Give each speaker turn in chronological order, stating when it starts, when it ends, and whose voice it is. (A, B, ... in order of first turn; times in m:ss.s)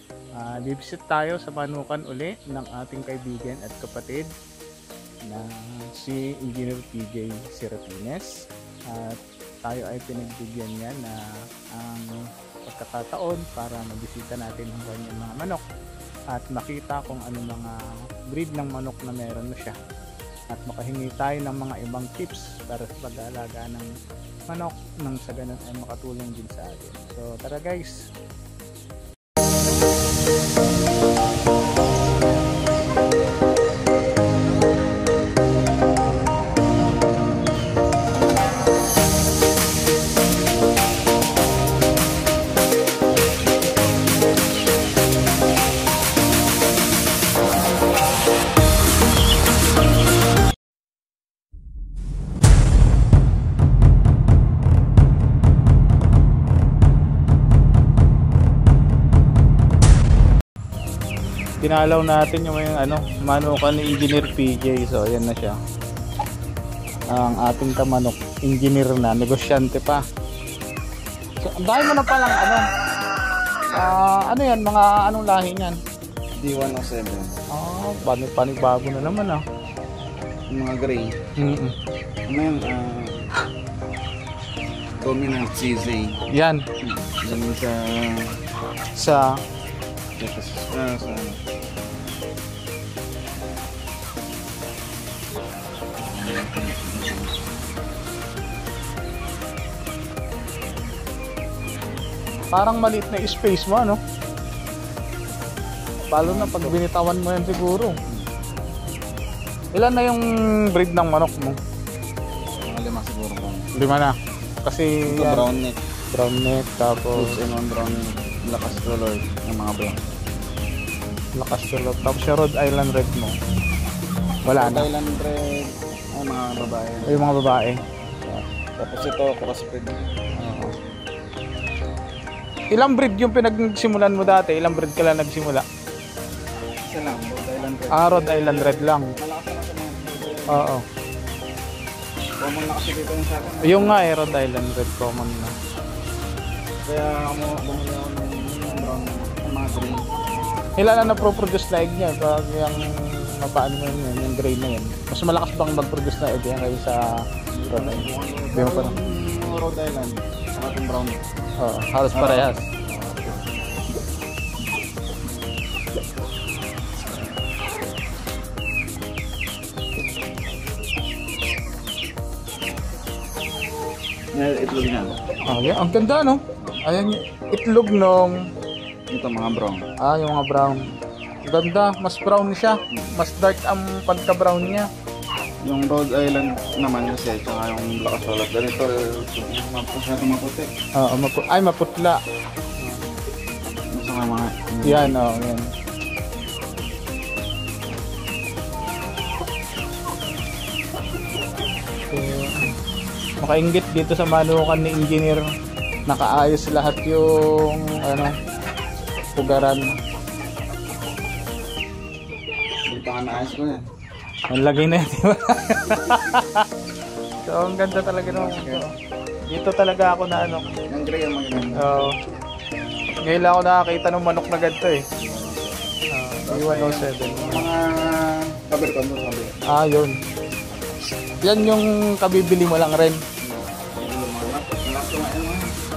0:00.4-0:04.3 A
0:05.2-0:08.3 A
0:08.9-0:11.2 A
0:11.7-0:15.6 A
0:16.3-0:19.7 A
0:20.5-0:23.9 A
0:24.5-0:28.0 A
1:01.6-1:05.6 A
1:07.1-1:10.0 A
1:11.4-1:12.6 A
1:13.7-1:15.8 A
1:16.4-1:17.4 B
1:17.5-1:19.4 A
1:20.5-1:21.1 B
1:21.4-1:21.7 A
1:22.3-1:23.2 B
1:25.0-1:26.2 B
1:26.3-1:26.6 A
1:26.8-1:28.3 B
1:29.0-1:29.4 A
1:30.2-1:31.4 B
1:36.0-1:37.3 B
1:42.5-1:44.0 A
1:46.1-1:47.9 A
1:46.2-1:46.8 B
1:49.7-1:50.2 A
1:50.7-1:51.6 A
1:52.7-1:53.7 B
1:53.8-1:54.1 A
1:54.6-1:55.4 A
1:55.1-1:55.8 B
1:56.1-1:57.3 A
1:57.1-2:00.0 B
2:01.4-2:03.3 A
2:04.4-2:04.9 A
2:04.5-2:07.3 B
2:07.0-2:07.8 A
2:08.8-2:10.1 B
2:10.4-2:10.7 A
2:12.7-2:15.6 A
2:16.8-2:20.7 B
2:17.9-2:19.1 A
2:20.5-2:20.8 A
2:22.4-2:24.0 B
2:23.6-2:25.5 A
2:26.8-2:30.0 B
2:30.8-2:37.0 A
2:31.0-2:31.3 B
2:37.5-2:41.2 B
2:37.7-2:38.9 A
2:41.6-2:42.6 A
2:42.1-2:43.5 B
2:54.3-2:55.1 B
2:55.5-2:58.4 A
2:59.1-2:59.8 B
3:00.0-3:00.8 A
3:01.4-3:04.9 A
3:05.6-3:10.7 B
3:11.0-3:12.2 A
3:12.8-3:13.1 A
3:13.9-3:15.4 B
3:14.8-3:15.7 A
3:22.1-3:22.7 A
3:23.4-3:25.4 A
3:26.1-3:28.3 A
3:29.4-3:29.9 A
3:32.9-3:33.8 B
3:34.5-3:36.6 A
3:37.4-3:38.9 A
3:38.2-3:38.8 B
3:39.5-3:40.6 A
3:40.9-3:41.9 B
3:41.8-3:42.1 A
3:43.3-3:45.0 A
3:45.2-3:45.9 B
3:46.1-3:47.7 A
3:46.4-3:49.6 B
3:49.7-3:50.2 A
3:51.4-3:53.2 A
3:53.4-3:55.6 B